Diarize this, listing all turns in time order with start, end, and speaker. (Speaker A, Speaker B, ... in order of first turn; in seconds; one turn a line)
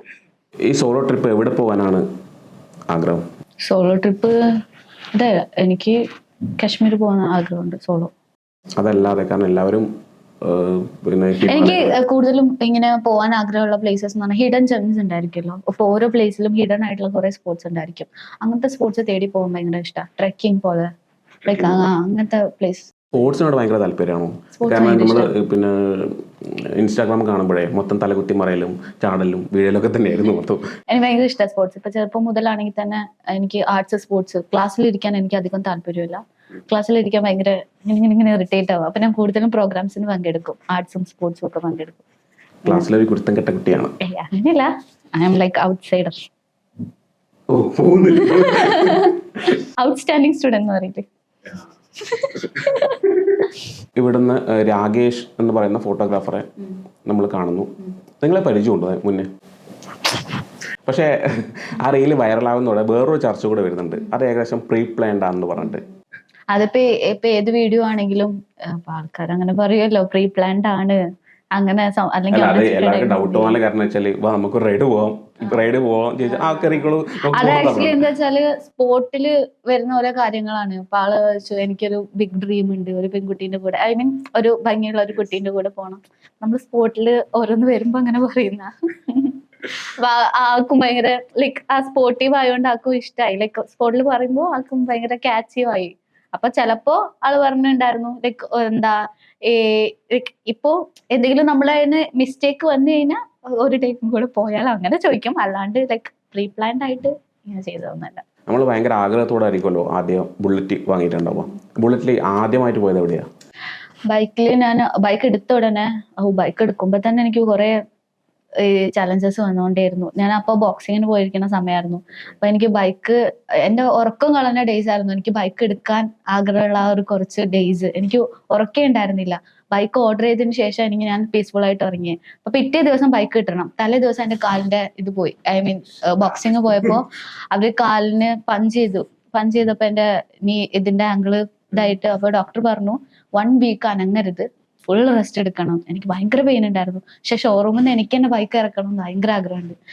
Speaker A: 0.7-2.0
Speaker A: 2.9-3.2
Speaker B: 3.7-4.4
Speaker B: 5.1-6.0
Speaker B: 6.6-8.1
Speaker A: 8.8-9.9
Speaker A: 10.4-11.9
Speaker B: 11.5-20.9
Speaker B: 21.4-22.9
Speaker A: 21.5-21.9
Speaker A: 23.1-30.7
Speaker B: 24.6-25.3
Speaker B: 30.9-42.0
Speaker A: 42.7-43.9
Speaker B: 44.0-46.2
Speaker A: 47.5-49.6
Speaker B: 48.1-51.1
Speaker B: 52.0-53.1
Speaker A: 54.0-56.5
Speaker A: 57.0-59.3
Speaker A: 60.8-65.9
Speaker B: 66.5-71.0
Speaker B: 71.5-73.6
Speaker A: 72.3-78.0
Speaker B: 76.3-108.2
Speaker A: 108.5-113.3
Speaker B: 114.1-117.8
Speaker B: 118.6-149.8